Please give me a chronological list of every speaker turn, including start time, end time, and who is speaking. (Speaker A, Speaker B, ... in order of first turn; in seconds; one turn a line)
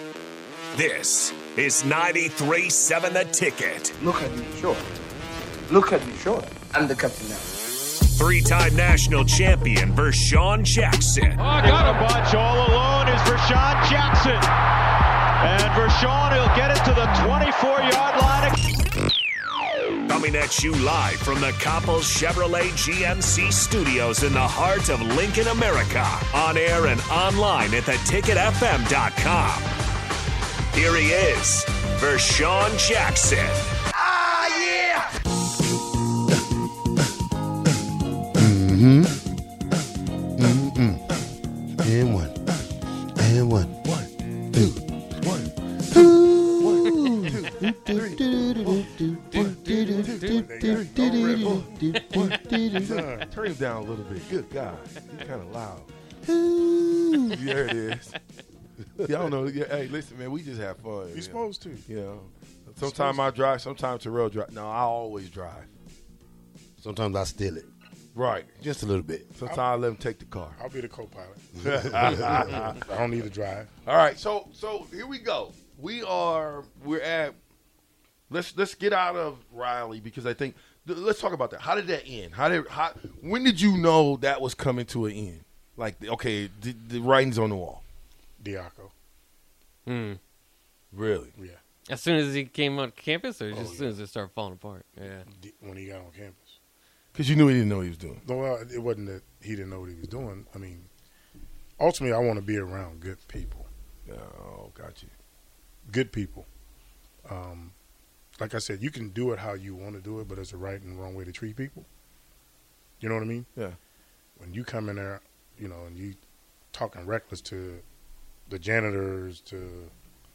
Speaker A: 0.7-3.9
Speaker B: 4.0-4.8
Speaker B: 5.7-7.5
Speaker A: 8.1-11.4
Speaker C: 11.4-12.0
Speaker D: 11.4-14.5
Speaker D: 15.4-18.6
Speaker A: 20.1-29.7
Speaker A: 30.7-33.7
Speaker B: 34.2-35.0
Speaker E: 38.3-39.2
Speaker E: 40.4-41.0
Speaker E: 41.8-42.3
Speaker E: 43.2-43.7
Speaker F: 43.8-48.2
Speaker E: 44.5-44.8
Speaker E: 45.9-53.0
Speaker C: 49.3-50.6
Speaker F: 49.3-55.9
Speaker G: 50.2-51.8
Speaker C: 51.8-52.3
Speaker G: 52.7-53.4
Speaker E: 56.2-57.5
Speaker F: 57.3-58.1
Speaker F: 59.0-65.7
Speaker G: 61.1-61.9
Speaker G: 62.8-63.3
Speaker E: 66.8-67.7
Speaker F: 68.1-68.5
Speaker E: 68.6-69.3
Speaker F: 69.3-70.5
Speaker G: 70.5-73.7
Speaker F: 71.6-72.8
Speaker E: 72.0-72.3
Speaker F: 73.8-77.3
Speaker F: 78.3-87.8
Speaker G: 88.4-88.9
Speaker C: 89.8-90.2
Speaker F: 90.9-91.3
Speaker C: 91.9-95.2
Speaker G: 93.5-94.0
Speaker G: 95.2-96.6
Speaker F: 97.1-98.2
Speaker G: 98.2-100.9
Speaker G: 101.8-103.7
Speaker F: 104.1-105.1
Speaker G: 105.9-106.5
Speaker G: 107.2-107.8
Speaker G: 108.4-111.9
Speaker G: 113.0-113.5
Speaker G: 114.4-116.2
Speaker G: 116.7-117.8
Speaker G: 118.5-119.9